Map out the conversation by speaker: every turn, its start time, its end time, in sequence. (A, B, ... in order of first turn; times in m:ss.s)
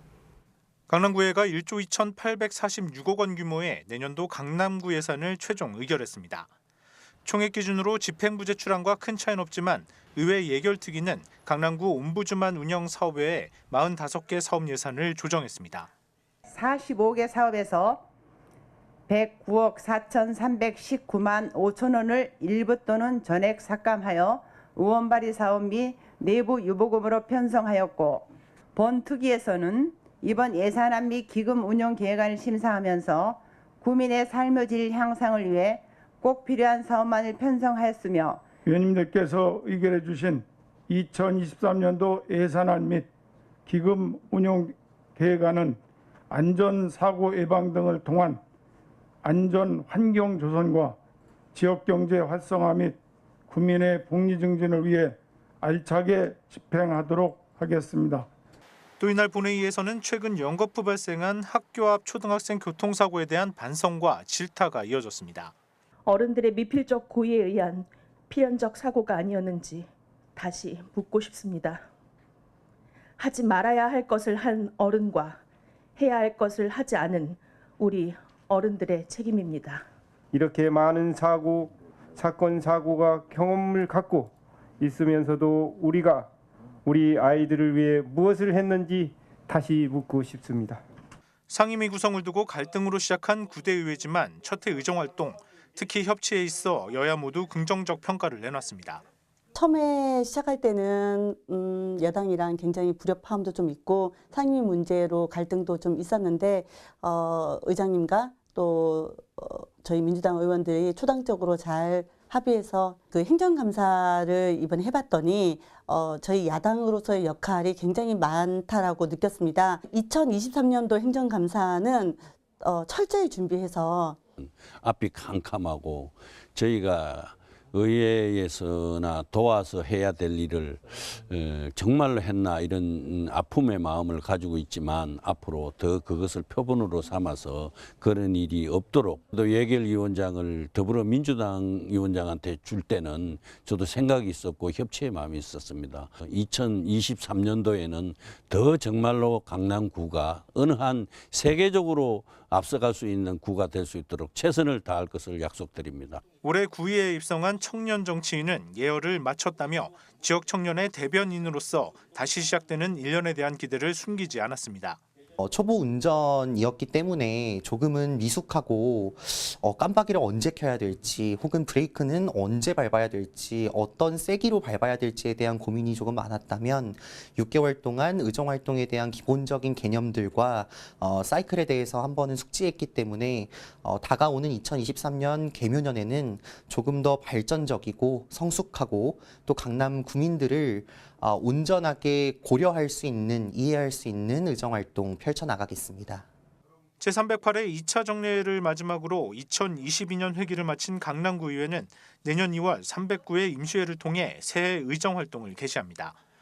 0:00.9-0:06.5 A
0:07.2-0:15.9 A
0:16.5-0:18.0 B
0:19.1-0:38.4 B
0:38.6-0:43.1 C
0:43.6-0:45.8 C
0:46.3-0:48.4 C
0:49.2-0:51.0 C
0:51.5-0:53.0 C
0:53.5-0:58.3 C
0:59.0-1:05.5 A
1:06.0-1:11.8 D
1:13.2-1:15.4 D
1:16.0-1:19.8 D
1:20.3-1:26.3 E
1:26.8-1:30.8 E
1:31.5-1:39.0 A
1:39.5-2:04.2 F
2:04.4-2:36.2 G
2:36.4-2:45.0 A
2:45.4-3:16.2 H
3:17.0-3:26.2 A